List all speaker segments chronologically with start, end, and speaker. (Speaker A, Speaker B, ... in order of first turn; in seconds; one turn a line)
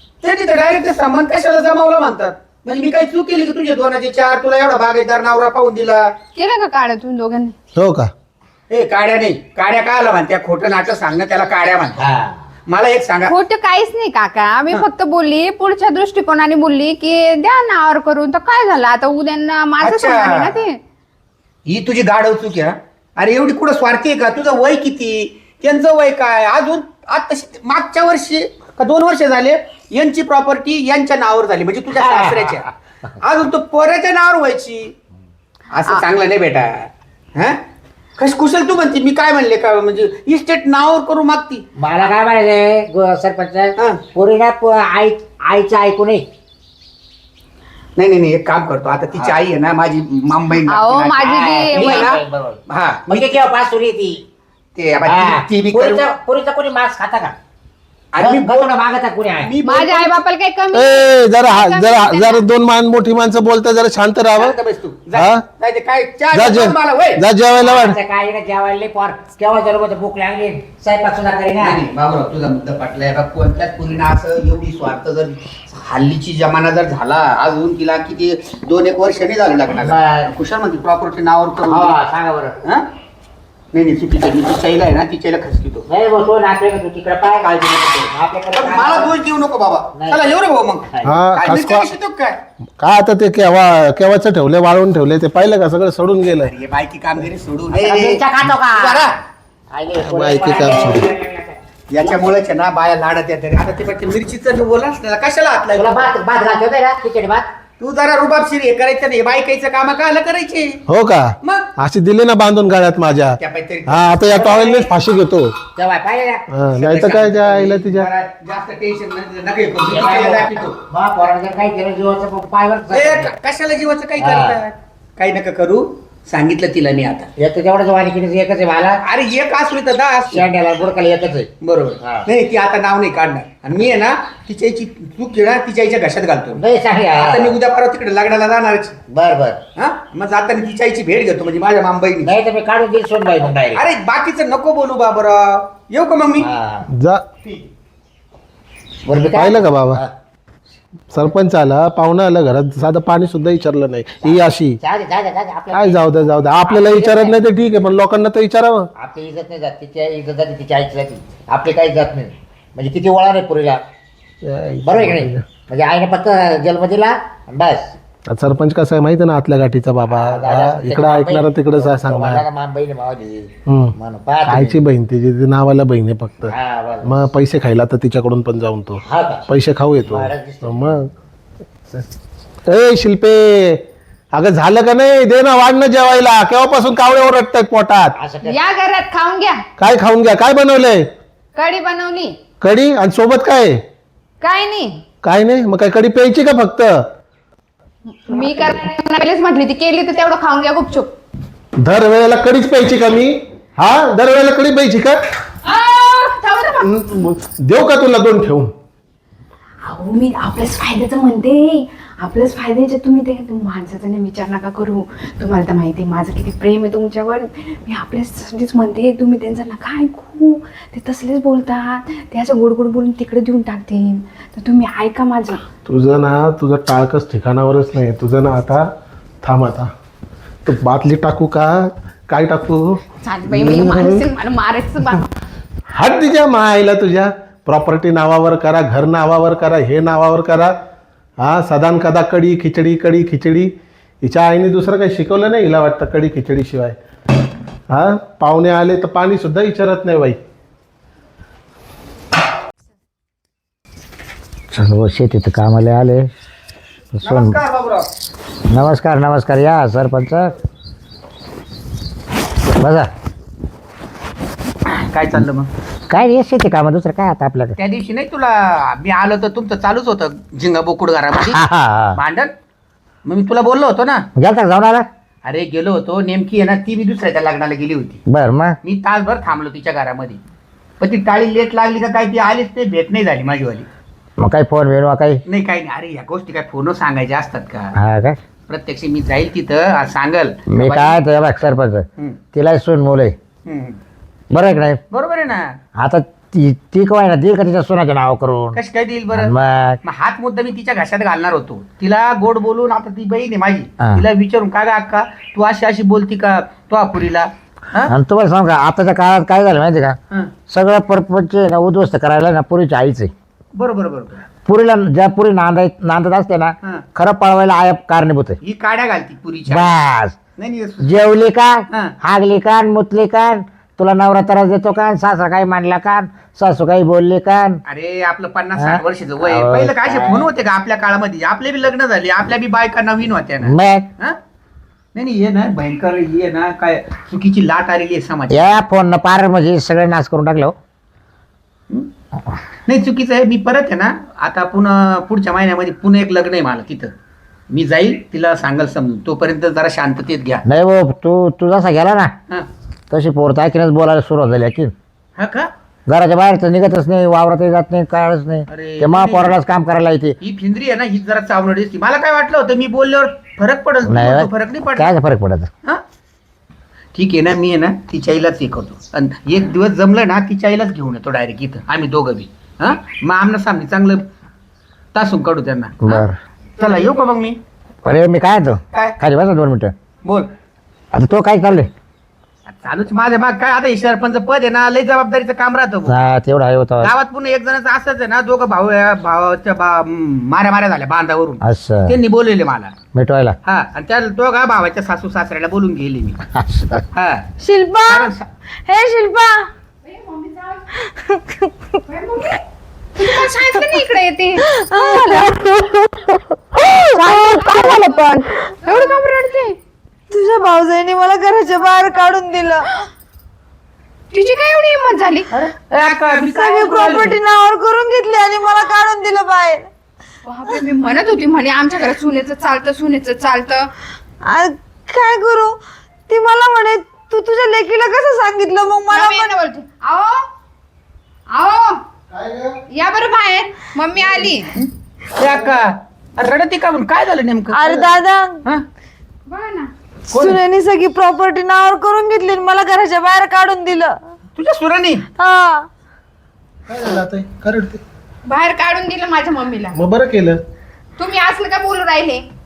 Speaker A: 0.2-6.1
Speaker B: 6.3-7.5
Speaker C: 7.8-8.1
Speaker A: 8.7-12.0
Speaker D: 12.0-12.4
Speaker A: 12.7-13.3
Speaker B: 13.3-20.8
Speaker A: 19.8-20.5
Speaker A: 21.7-32.6
Speaker D: 31.9-32.7
Speaker A: 33.2-34.9
Speaker A: 35.7-37.6
Speaker A: 38.2-41.6
Speaker D: 41.8-46.3
Speaker A: 48.0-53.4
Speaker B: 50.7-52.1
Speaker D: 51.7-54.2
Speaker A: 54.8-56.1
Speaker D: 55.0-57.4
Speaker A: 58.1-58.7
Speaker D: 58.2-59.5
Speaker A: 59.4-60.1
Speaker B: 59.6-62.4
Speaker C: 60.7-64.6
Speaker A: 64.4-67.2
Speaker C: 65.2-65.4
Speaker C: 66.3-68.0
Speaker D: 67.6-71.8
Speaker A: 71.6-82.0
Speaker D: 79.8-80.3
Speaker D: 81.7-82.6
Speaker A: 82.6-82.9
Speaker A: 83.7-85.9
Speaker D: 85.9-87.5
Speaker A: 87.4-92.4
Speaker D: 88.1-89.1
Speaker D: 89.9-90.2
Speaker D: 90.9-91.2
Speaker C: 91.0-91.9
Speaker C: 92.8-96.5
Speaker A: 96.4-99.2
Speaker D: 97.7-99.0
Speaker D: 99.7-101.6
Speaker C: 100.0-101.1
Speaker A: 101.9-106.1
Speaker D: 105.8-107.5
Speaker A: 107.8-110.8
Speaker C: 110.9-115.6
Speaker A: 111.4-111.7
Speaker A: 113.4-114.7
Speaker D: 115.8-116.5
Speaker C: 116.5-118.1
Speaker A: 116.8-120.8
Speaker D: 119.9-123.3
Speaker A: 122.9-127.3
Speaker D: 124.2-124.6
Speaker D: 127.4-129.0
Speaker A: 129.0-130.5
Speaker D: 130.3-131.5
Speaker A: 131.6-136.6
Speaker D: 132.0-132.3
Speaker D: 136.6-137.6
Speaker A: 137.2-139.0
Speaker D: 139.1-139.6
Speaker A: 139.8-142.3
Speaker D: 142.2-143.8
Speaker A: 143.6-146.5
Speaker D: 146.4-146.9
Speaker C: 146.9-147.2
Speaker D: 149.1-150.1
Speaker C: 149.3-150.0
Speaker C: 151.1-154.8
Speaker D: 154.2-157.4
Speaker C: 155.7-158.9
Speaker D: 159.0-163.8
Speaker C: 164.4-165.4
Speaker D: 164.8-167.9
Speaker C: 168.3-172.4
Speaker D: 170.1-174.8
Speaker C: 173.7-173.9
Speaker C: 174.5-176.5
Speaker D: 176.5-177.1
Speaker C: 177.1-181.1
Speaker D: 179.1-179.5
Speaker D: 180.1-181.0
Speaker C: 182.7-183.8
Speaker C: 184.3-188.2
Speaker D: 188.2-188.6
Speaker B: 188.4-189.6
Speaker C: 189.8-191.1
Speaker B: 191.6-192.4
Speaker C: 192.6-193.8
Speaker B: 194.4-195.0
Speaker C: 195.2-197.1
Speaker B: 198.1-201.1
Speaker C: 201.8-205.2
Speaker B: 205.7-206.9
Speaker C: 206.8-208.7
Speaker B: 209.8-225.6
Speaker C: 225.9-228.9
Speaker C: 229.4-229.9
Speaker C: 230.7-234.2
Speaker B: 233.2-235.3
Speaker C: 235.9-240.8
Speaker C: 241.4-247.0
Speaker C: 247.9-250.4
Speaker D: 254.7-256.3
Speaker D: 257.1-257.6
Speaker A: 257.2-258.1
Speaker D: 258.7-260.5
Speaker D: 262.8-263.1
Speaker A: 264.9-265.7
Speaker D: 266.1-267.8
Speaker A: 267.8-271.6
Speaker D: 271.3-272.2
Speaker A: 272.1-272.5
Speaker A: 273.2-274.3
Speaker D: 274.4-275.1
Speaker A: 275.4-278.2
Speaker D: 278.3-278.8
Speaker A: 278.8-280.4
Speaker A: 281.0-283.9
Speaker D: 284.4-285.4
Speaker A: 285.5-287.9
Speaker D: 287.9-288.4
Speaker A: 288.7-291.2
Speaker D: 290.7-293.4
Speaker A: 293.7-294.0
Speaker D: 294.5-295.0
Speaker A: 295.1-295.8
Speaker D: 296.0-298.8
Speaker A: 298.8-299.5
Speaker D: 299.3-300.0
Speaker A: 300.0-308.1
Speaker D: 304.0-304.3
Speaker D: 308.1-313.3
Speaker A: 313.7-314.4
Speaker D: 314.6-318.6
Speaker A: 318.6-319.9
Speaker D: 319.7-320.4
Speaker A: 320.6-321.3
Speaker D: 321.0-327.8
Speaker A: 321.9-322.1
Speaker A: 327.9-334.4
Speaker D: 328.8-330.5
Speaker D: 333.6-334.1
Speaker A: 335.1-338.8
Speaker D: 338.5-340.8
Speaker A: 342.9-347.1
Speaker A: 347.7-350.6
Speaker D: 350.6-352.4
Speaker D: 353.1-354.9
Speaker A: 355.4-355.7
Speaker D: 356.1-360.4
Speaker A: 358.7-359.6
Speaker A: 360.4-365.1
Speaker D: 364.1-365.7
Speaker A: 367.1-374.3
Speaker A: 375.1-376.2
Speaker D: 376.0-376.4
Speaker A: 376.8-377.6
Speaker D: 378.1-379.9
Speaker D: 381.1-381.9
Speaker A: 382.7-386.2
Speaker D: 386.1-387.1
Speaker A: 387.0-393.0
Speaker D: 391.6-392.2
Speaker D: 393.1-393.6
Speaker A: 393.7-396.4
Speaker D: 396.5-397.0
Speaker A: 397.1-397.5
Speaker E: 397.6-398.3
Speaker A: 398.1-398.5
Speaker E: 398.9-399.7
Speaker B: 400.0-400.9
Speaker E: 401.0-401.7
Speaker B: 402.1-402.6
Speaker B: 403.2-405.7
Speaker E: 404.7-409.2
Speaker B: 407.1-409.8
Speaker E: 410.3-412.9
Speaker B: 414.3-415.5
Speaker A: 415.5-417.4
Speaker E: 416.3-419.9
Speaker B: 420.5-423.9
Speaker E: 424.4-425.8
Speaker E: 426.3-429.5
Speaker B: 429.1-430.5
Speaker B: 431.5-432.0
Speaker C: 432.3-432.8
Speaker B: 432.9-434.7
Speaker A: 434.8-438.1
Speaker C: 435.4-435.8
Speaker E: 437.7-438.6
Speaker B: 439.5-439.9
Speaker E: 440.3-444.2
Speaker C: 440.3-440.6
Speaker A: 444.6-445.3
Speaker E: 445.4-445.9
Speaker C: 446.9-448.0
Speaker B: 448.5-450.0
Speaker C: 450.0-450.6
Speaker B: 451.2-452.4